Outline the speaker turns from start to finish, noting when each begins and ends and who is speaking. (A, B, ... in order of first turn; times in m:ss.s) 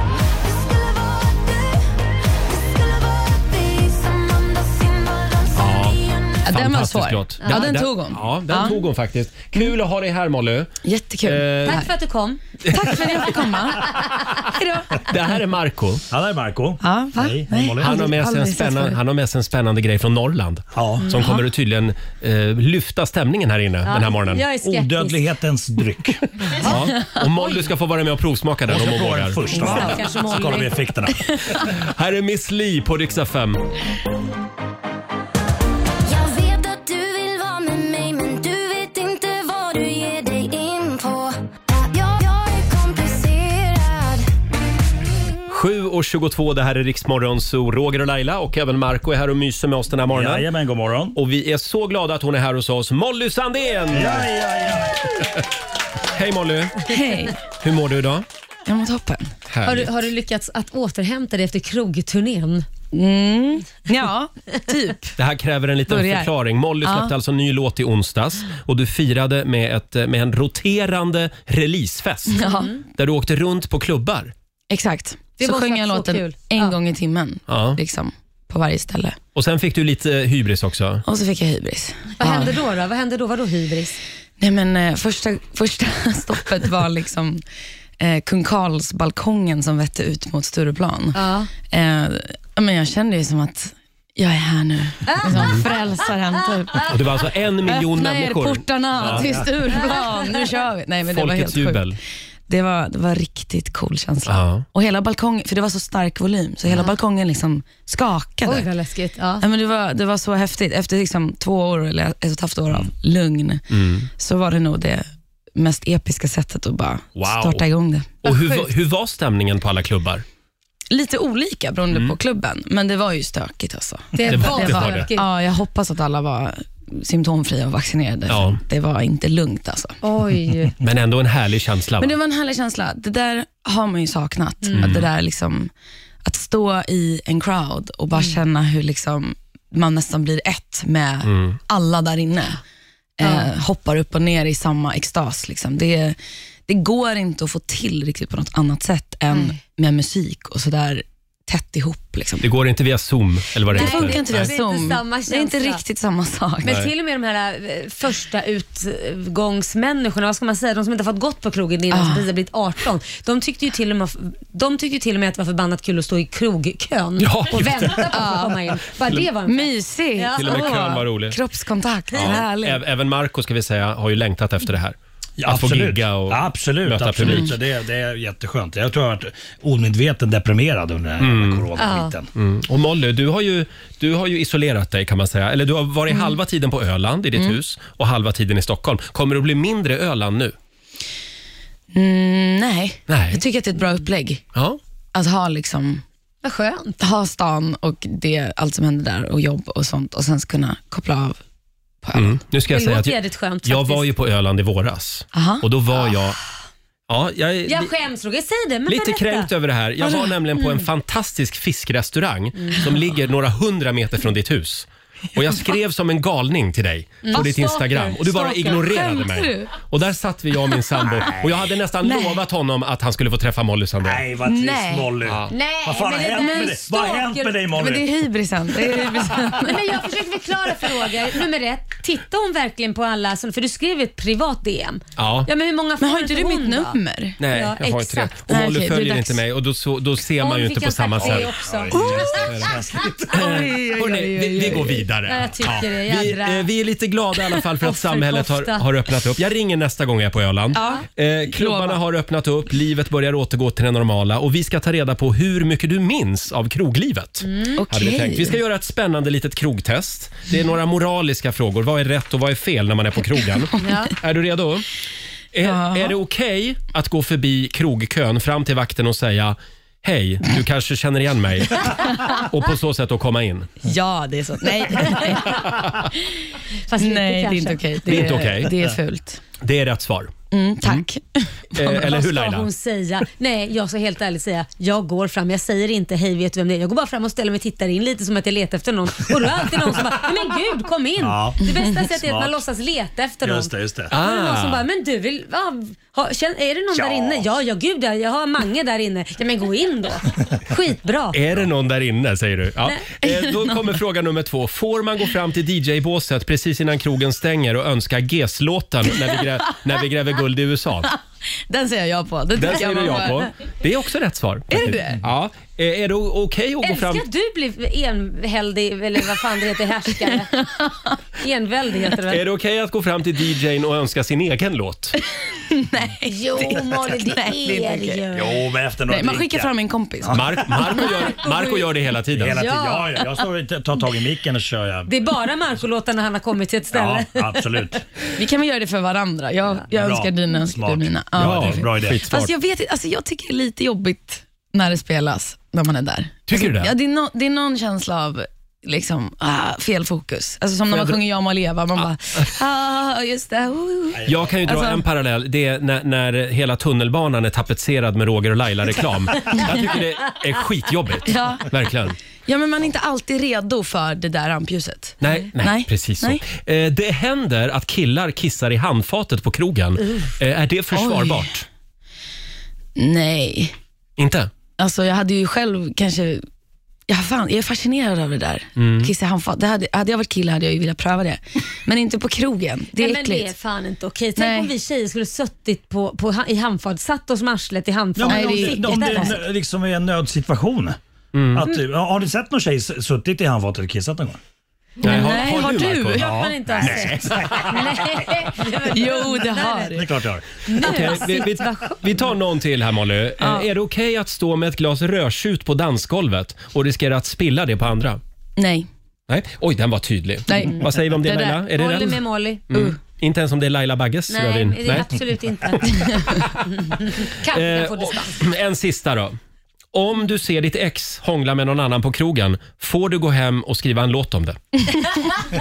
0:00.3-0:01.8 A
0:02.5-0:06.6 A
0:05.6-0:06.0 B
0:06.4-0:08.8 C
0:06.5-0:10.7 B
0:10.8-0:11.9 C
0:11.2-0:11.8 B
0:11.6-0:13.1 D
0:12.6-0:13.2 B
0:12.7-0:15.1 C
0:15.1-0:16.0 B
0:16.1-0:18.1 E
0:16.8-0:19.0 C
0:17.8-0:24.4 B
0:20.7-0:21.1 E
0:23.9-0:25.2 D
0:24.6-0:26.3 E
0:26.6-0:29.9 B
0:28.7-0:31.6 E
0:29.6-0:30.7 D
0:31.6-0:33.6 B
0:36.1-0:44.3 A
0:45.5-0:50.5 B
0:50.1-0:51.2 E
0:51.2-0:54.3 B
0:53.9-0:55.0 E
0:56.1-0:56.9 B
0:56.9-0:57.4 C
0:57.4-0:58.2 B
0:58.7-0:59.3 C
0:59.5-0:59.9 B
0:59.6-1:02.7 D
1:02.9-1:05.2 C
1:05.2-1:14.3 B
1:05.9-1:06.3 C
1:06.8-1:07.1 C
1:12.3-1:12.7 C
1:12.4-1:12.8 D
1:14.7-1:19.2 C
1:15.4-1:16.8 D
1:17.5-1:17.8 B
1:19.4-1:21.0 B
1:21.0-1:22.6 C
1:22.2-1:24.0 D
1:24.4-1:27.4 C
1:28.0-1:36.9 C
1:31.1-1:31.5 D
1:35.1-1:35.7 D
1:36.9-1:39.4 B
1:37.6-1:41.9 C
1:39.0-1:39.5 E
1:39.7-1:40.4 D
1:41.1-1:42.0 B
1:42.5-1:48.7 C
1:44.3-1:44.7 B
1:48.4-1:49.4 D
1:49.4-1:53.7 C
1:53.7-1:54.1 B
1:54.2-1:55.0 C
1:55.6-1:58.2 C
1:57.2-1:57.6 B
1:58.2-2:00.2 B
1:58.3-1:58.7 D
2:00.9-2:10.0 C
2:04.2-2:05.3 D
2:04.2-2:05.1 B
2:08.3-2:08.6 B
2:10.0-2:10.7 D
2:10.8-2:12.1 B
2:12.0-2:15.7 C
2:14.6-2:14.9 D
2:14.8-2:15.1 B
2:16.2-2:22.6 C
2:21.2-2:21.6 B
2:23.2-2:32.5 C
2:23.2-2:23.5 D
2:29.3-2:29.6 D
2:32.4-2:34.5 B
2:33.7-2:36.8 C
2:33.7-2:35.8 D
2:36.6-2:50.9 D
2:36.7-2:36.9 B
2:41.9-2:42.3 C
2:47.2-2:48.2 B
2:48.1-2:48.6 C
2:49.4-2:52.8 C
2:50.4-2:51.4 B
2:52.1-2:52.5 D
2:52.1-2:57.5 B
2:55.4-3:02.3 E
3:01.2-3:01.6 B
3:01.8-3:02.1 D
3:02.4-3:10.6 B
3:11.9-3:14.4 C
3:13.1-3:13.4 B
3:14.5-3:14.8 B
3:15.1-3:16.0 C
3:16.4-3:17.0 D
3:17.0-3:21.4 C
3:22.0-3:22.4 C
3:22.1-3:26.4 B
3:22.7-3:24.1 D
3:25.3-3:25.6 C
3:27.1-3:27.9 B
3:27.7-3:29.5 D
3:28.9-3:44.2 B
3:30.0-3:30.3 C
3:32.6-3:32.8 D
3:37.2-3:38.2 D
3:37.4-3:39.7 C
3:42.0-3:42.4 C
3:44.0-3:48.1 E
3:44.4-3:45.1 C
3:45.2-3:45.5 B
3:45.5-3:47.6 D
3:46.4-3:46.8 C
3:47.7-3:49.9 C
3:49.6-3:57.0 D
3:55.2-3:55.5 B
3:56.0-3:57.4 C
3:57.4-4:02.8 B
3:57.5-3:58.4 D
3:58.5-3:59.4 C
4:00.4-4:02.7 D
4:01.2-4:03.6 E
4:01.9-4:02.2 C
4:03.3-4:24.9 B
4:03.3-4:05.1 C
4:05.3-4:06.7 D
4:07.6-4:08.9 D
4:10.8-4:12.0 C
4:10.8-4:11.0 D
4:17.4-4:17.8 D
4:17.8-4:18.6 C
4:23.8-4:24.1 D
4:25.5-4:33.8 B
4:25.6-4:26.2 C
4:33.8-4:35.6 C
4:35.0-4:35.4 D
4:35.2-4:36.0 B
4:36.9-4:38.3 D
4:37.0-4:39.4 C
4:38.1-4:38.8 B
4:39.6-4:41.0 B
4:40.5-4:42.1 C
4:41.7-4:42.7 B
4:41.9-5:01.4 D
4:51.2-4:52.6 E
4:53.4-4:54.1 E
4:54.1-4:54.8 B
4:56.9-4:57.5 E
5:01.3-5:11.1 B
5:03.2-5:03.8 C
5:09.1-5:09.4 C
5:11.7-5:13.5 C
5:12.6-5:17.3 B
5:14.7-5:15.2 C
5:16.8-5:20.5 D
5:20.4-5:21.2 C
5:21.4-5:22.4 D
5:22.3-5:25.2 B
5:25.7-5:28.3 C
5:26.3-5:28.5 D
5:28.3-5:29.7 E
5:29.1-5:30.4 C
5:30.2-5:30.7 E
5:30.3-5:32.6 B
5:31.2-5:31.8 D
5:32.4-5:35.1 E
5:32.6-5:33.2 D
5:35.1-5:37.8 D
5:36.9-5:38.0 E
5:38.4-5:55.0 C
5:39.9-5:42.2 E
5:41.4-5:42.5 B
5:46.5-5:46.9 B
5:50.9-5:51.2 B
5:54.2-5:54.6 E
5:54.2-6:02.2 B
6:01.2-6:01.7 C
6:02.4-6:06.4 C
6:05.2-6:11.6 B
6:10.9-6:11.5 C
6:13.0-6:13.7 C
6:14.2-6:14.5 B
6:14.8-6:16.4 C
6:17.1-6:23.5 C
6:18.8-6:19.1 B
6:23.0-6:29.4 D
6:24.4-6:24.7 C
6:28.2-6:31.0 E
6:28.3-6:29.4 C
6:31.3-6:31.7 B
6:31.5-6:34.4 E
6:35.0-6:36.2 B
6:35.0-6:36.3 C
6:35.0-6:40.0 D
6:36.2-6:38.2 E
6:36.8-6:37.1 B
6:38.9-6:40.1 C
6:40.0-6:40.5 E
6:40.7-6:42.3 D
6:40.8-6:48.2 B
6:43.4-6:43.7 C
6:48.6-6:48.9 C
6:49.3-6:56.6 B
6:50.5-6:51.6 C
6:51.3-6:52.6 D
6:52.7-6:53.0 C
6:54.3-6:58.4 D
6:57.5-6:59.4 B
6:59.9-7:04.6 B
7:04.9-7:05.4 C